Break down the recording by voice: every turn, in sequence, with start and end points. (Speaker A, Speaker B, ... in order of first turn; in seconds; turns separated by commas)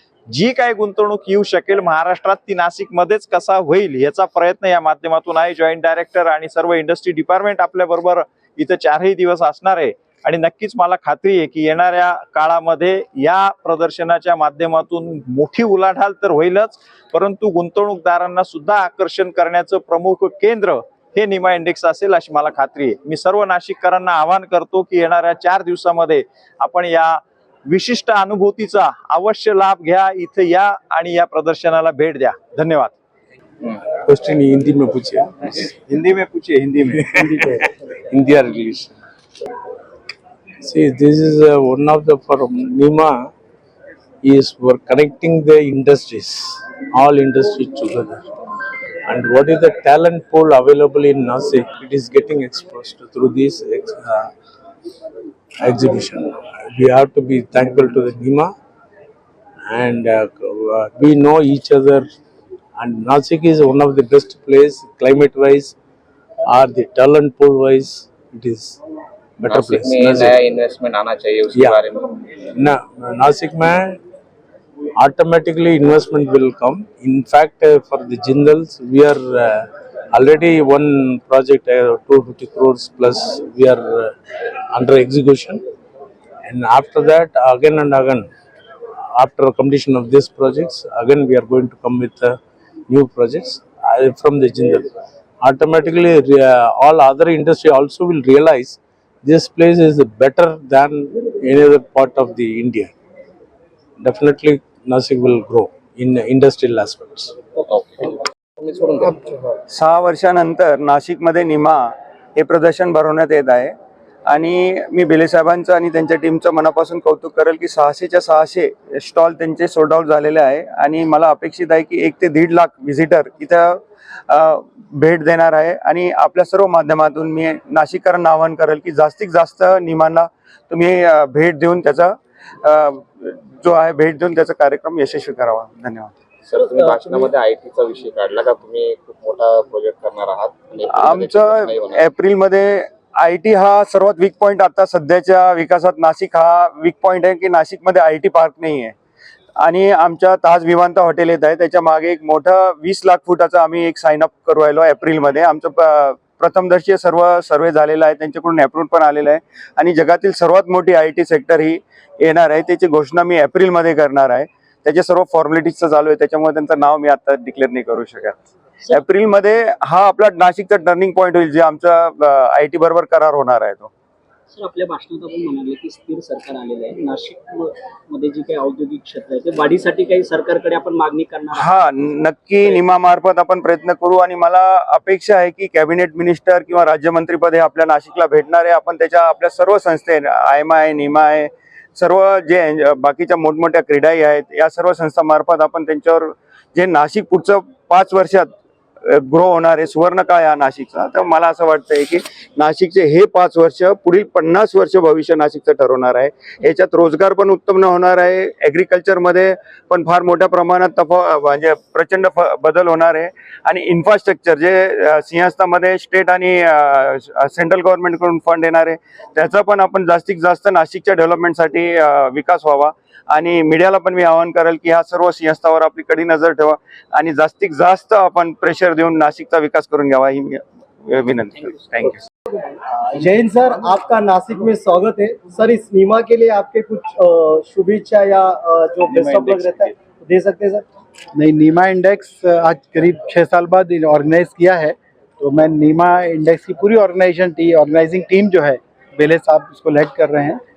Speaker A: 0.3-32.9, Speaker B: 33.7-35.7, Speaker A: 35.7-37.4, Speaker B: 36.8-39.0, Speaker B: 40.6-43.3, Speaker B: 44.2-48.3, Speaker B: 49.1-54.3, Speaker B: 55.6-58.5, Speaker B: 59.6-62.1, Speaker B: 62.8-65.8, Speaker B: 66.5-68.8, Speaker B: 69.4-70.4, Speaker C: 69.5-72.0, Speaker B: 71.5-71.9, Speaker B: 72.5-74.0, Speaker B: 75.0-84.1, Speaker B: 84.7-85.6, Speaker B: 86.4-88.3, Speaker B: 89.2-92.4, Speaker B: 92.9-94.9, Speaker B: 95.4-102.9, Speaker B: 104.0-107.3, Speaker C: 107.7-109.5, Speaker D: 109.7-113.7, Speaker D: 114.3-136.2, Speaker C: 136.4-142.0, Speaker E: 136.8-137.2, Speaker D: 140.9-148.9, Speaker D: 149.6-173.9, Speaker E: 174.5-181.7, Speaker D: 181.5-198.5, Speaker D: 199.0-232.2, Speaker F: 232.9-240.8, Speaker D: 239.1-239.8, Speaker G: 241.3-250.6